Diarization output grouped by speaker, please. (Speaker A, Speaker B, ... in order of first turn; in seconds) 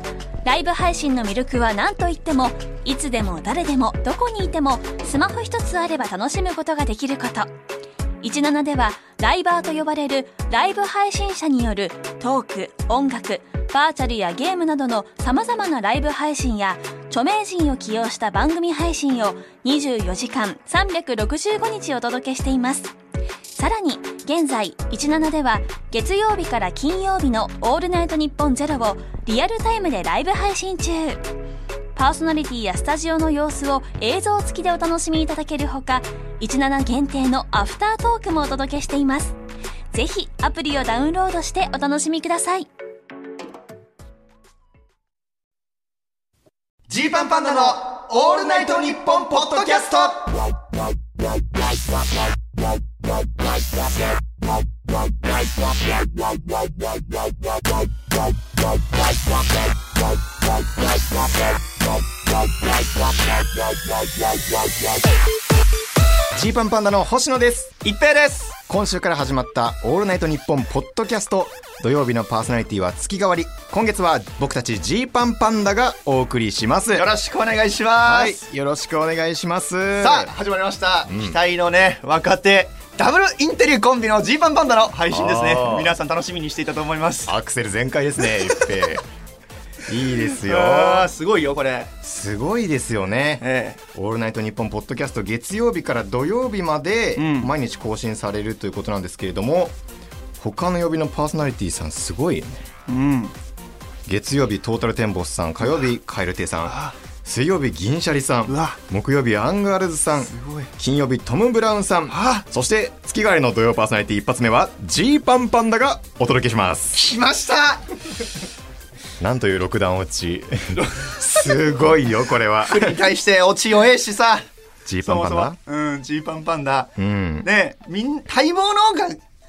Speaker A: 0.4-7.5, 8.2-22.9, 23.5-31.2, 31.9-39.4, 39.9-42.7
Speaker B: 46.9-50.2, 67.8-68.5, 77.0-78.4, 80.0-87.3, 88.2-88.9, 90.2-91.9, 93.4-93.8, 97.2-97.5, 102.9-103.3, 106.6-106.9, 108.5-108.8, 110.3-110.7, 112.1-112.4, 116.9-117.8, 120.8-121.2, 122.7-124.5, 125.0-129.2
Speaker C: 47.2-50.3, 66.3-67.8, 68.7-77.1, 78.0-80.3, 81.1-81.4, 85.1-85.9, 87.2-89.0, 89.9-91.1, 92.0-93.4, 93.9-99.7, 100.4-102.6, 104.0-117.0, 119.2-123.0, 124.8-125.6, 127.0-127.5